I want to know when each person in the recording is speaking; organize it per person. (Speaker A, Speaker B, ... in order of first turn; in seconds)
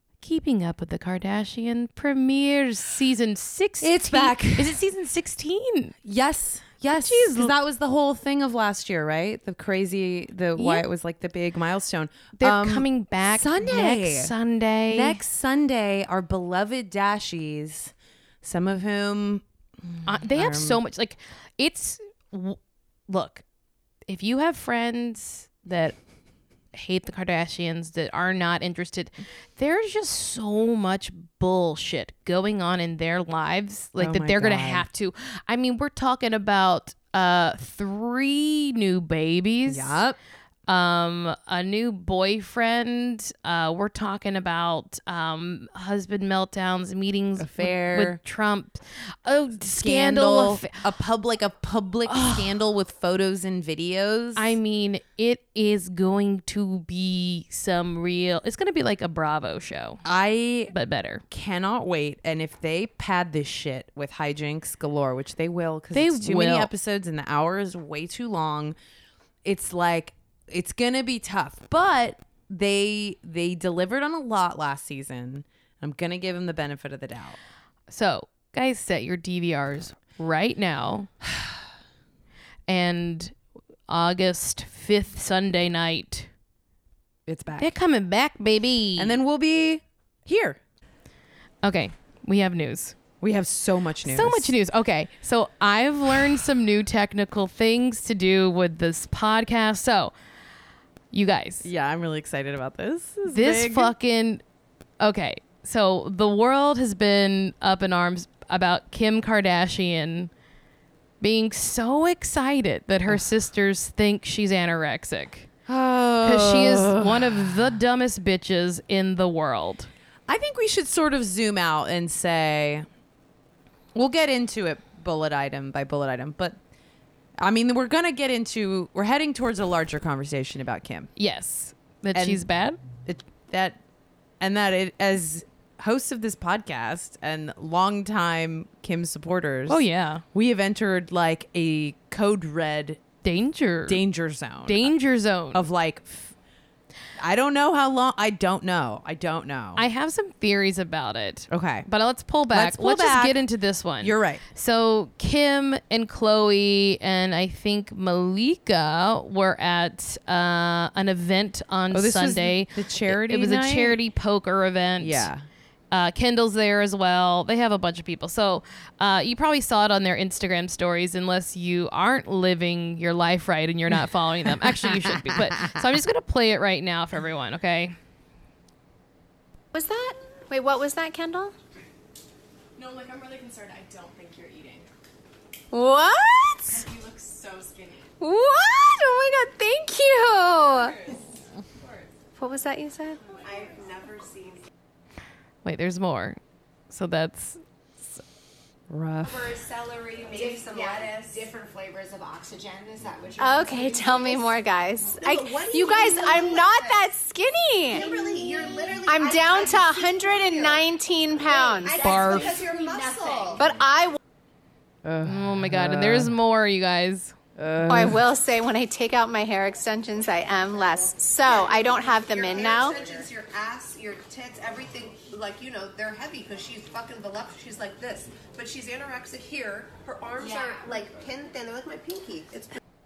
Speaker A: 0.2-5.9, 6.9-7.5, 10.6-10.8, 12.4-15.2, 20.1-23.4, 24.1-25.9, 26.7-40.0, 40.7-50.7, 52.1-52.5, 54.4-60.0, 60.7-61.2, 65.9-66.7, 77.9-81.1, 82.7-83.3, 83.9-86.3, 87.6-89.2, 91.6-93.0, 94.0-100.1, 101.1-101.7, 103.2-104.4, 105.0-110.3, 111.2-115.5, 116.2-119.9, 131.2-132.8, 139.7-140.2, 143.2-144.0, 144.7-145.6, 149.8-165.3, 165.9-177.9, 195.6-196.4, 196.9-198.2, 215.2-217.3
Speaker B: 3.8-4.8, 6.0-14.3, 14.9-20.8, 34.0-34.9, 39.7-40.2, 47.4-48.2, 49.8-54.6, 60.0-60.7, 61.3-68.8, 69.4-77.4, 87.3-87.7, 89.0-90.6, 93.2-94.5, 101.6-103.9, 115.7-117.7, 120.3-122.8, 123.9-126.6, 127.4-131.1, 132.1-132.4, 133.0-133.8, 134.4-143.0, 143.9-144.9, 145.5-146.3, 147.2-149.8, 151.5-151.9, 152.5-153.4, 154.0-154.4, 161.9-164.0, 165.0-165.4, 174.6-175.8, 198.9-199.6, 215.0-216.2, 217.6-218.2
Speaker C: 179.7-181.5, 185.7-186.9, 188.2-191.0, 192.3-193.4, 203.4-212.7, 213.5-214.2, 217.9-223.2
Speaker D: 193.4-194.6, 199.2-204.6, 205.1-207.0, 207.9-210.8, 211.5-213.7, 221.4-232.8